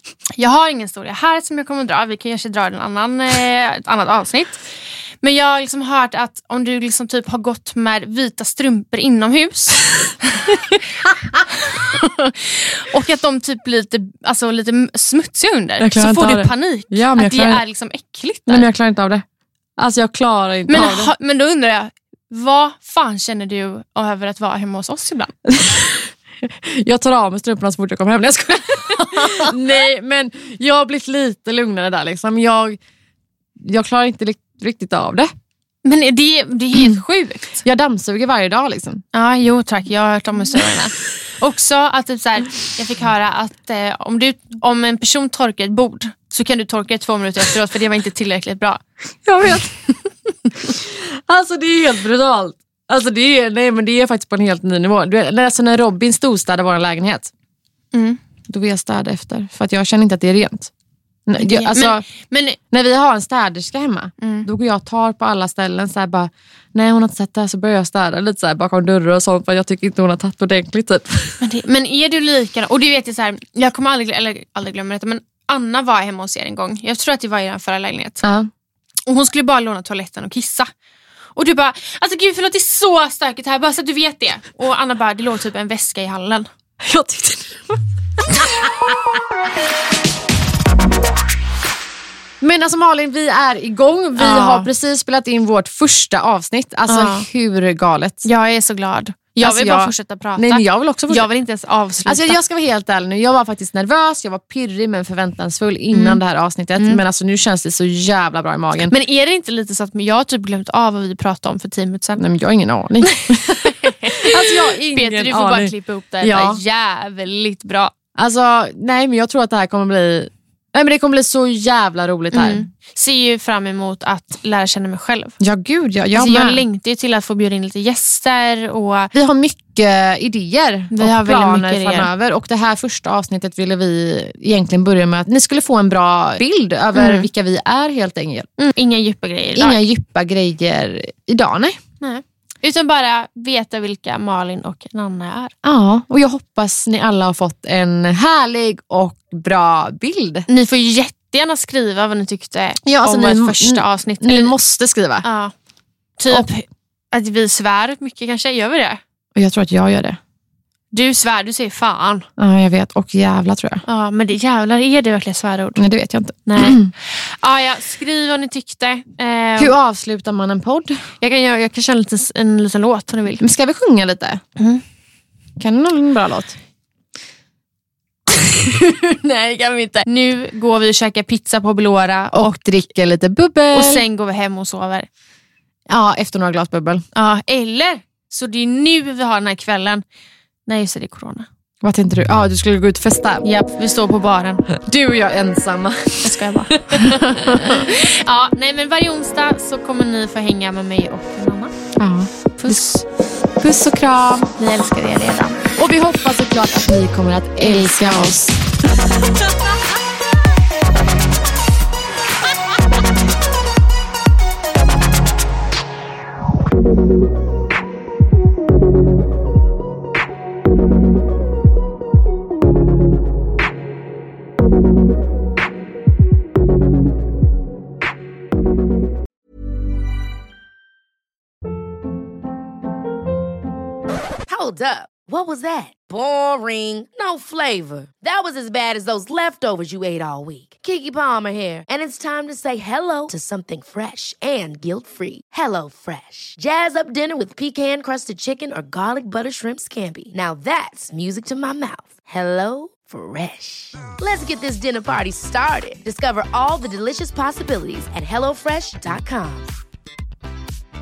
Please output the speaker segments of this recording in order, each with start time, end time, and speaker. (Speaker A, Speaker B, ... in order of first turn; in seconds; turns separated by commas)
Speaker A: 0.3-4.6, Speaker A: 5.2-10.8, Speaker A: 11.5-18.7, Speaker B: 15.8-17.6, Speaker B: 18.5-19.2, Speaker B: 19.8-21.1, Speaker A: 20.7-25.3, Speaker B: 25.4-32.8, Speaker B: 33.6-35.3, Speaker A: 35.8-37.6, Speaker B: 37.6-39.0, Speaker A: 39.1-48.8, Speaker B: 49.2-49.9, Speaker B: 50.6-57.3, Speaker A: 57.9-58.2, Speaker B: 58.5-60.7, Speaker B: 61.3-62.0, Speaker A: 61.4-62.6, Speaker B: 62.7-71.4, Speaker A: 64.2-64.5, Speaker A: 71.4-78.2, Speaker B: 78.2-78.5, Speaker A: 79.0-80.7, Speaker A: 81.3-86.5, Speaker B: 86.8-89.2, Speaker B: 92.4-98.2, Speaker A: 94.2-94.7, Speaker A: 96.9-97.2, Speaker A: 98.2-102.4, Speaker B: 99.4-101.3, Speaker B: 102.0-108.9, Speaker A: 105.9-106.2, Speaker A: 106.8-107.0, Speaker A: 108.9-112.2, Speaker B: 112.2-116.6, Speaker A: 113.2-117.9, Speaker B: 118.2-122.6, Speaker A: 122.3-125.3, Speaker B: 125.4-126.6, Speaker A: 126.1-129.1, Speaker B: 129.1-138.5, Speaker A: 130.9-132.1, Speaker A: 136.9-137.3, Speaker A: 138.6-139.8, Speaker B: 139.5-141.8, Speaker A: 142.0-145.5, Speaker B: 145.6-150.5, Speaker A: 150.5-154.6, Speaker B: 152.8-155.2, Speaker A: 155.2-155.5, Speaker A: 156.2-159.0, Speaker B: 159.3-160.2, Speaker A: 160.9-162.3, Speaker B: 162.4-163.8, Speaker A: 163.8-165.8, Speaker B: 165.8-166.9, Speaker A: 166.4-169.7, Speaker B: 169.6-171.0, Speaker A: 171.2-173.4, Speaker B: 173.4-174.4, Speaker A: 174.6-174.8, Speaker B: 175.6-176.6, Speaker A: 178.3-182.7, Speaker B: 182.3-184.0, Speaker A: 183.7-185.1, Speaker B: 185.9-187.0, Speaker A: 187.1-190.0, Speaker A: 190.7-191.5, Speaker B: 191.8-193.4, Speaker A: 193.4-194.6, Speaker B: 194.7-197.9, Speaker A: 196.2-201.7, Speaker B: 202.0-202.9, Speaker A: 202.6-203.0, Speaker B: 203.6-204.5, Speaker A: 204.6-205.7, Speaker B: 205.8-208.6, Speaker C: 234.5-259.8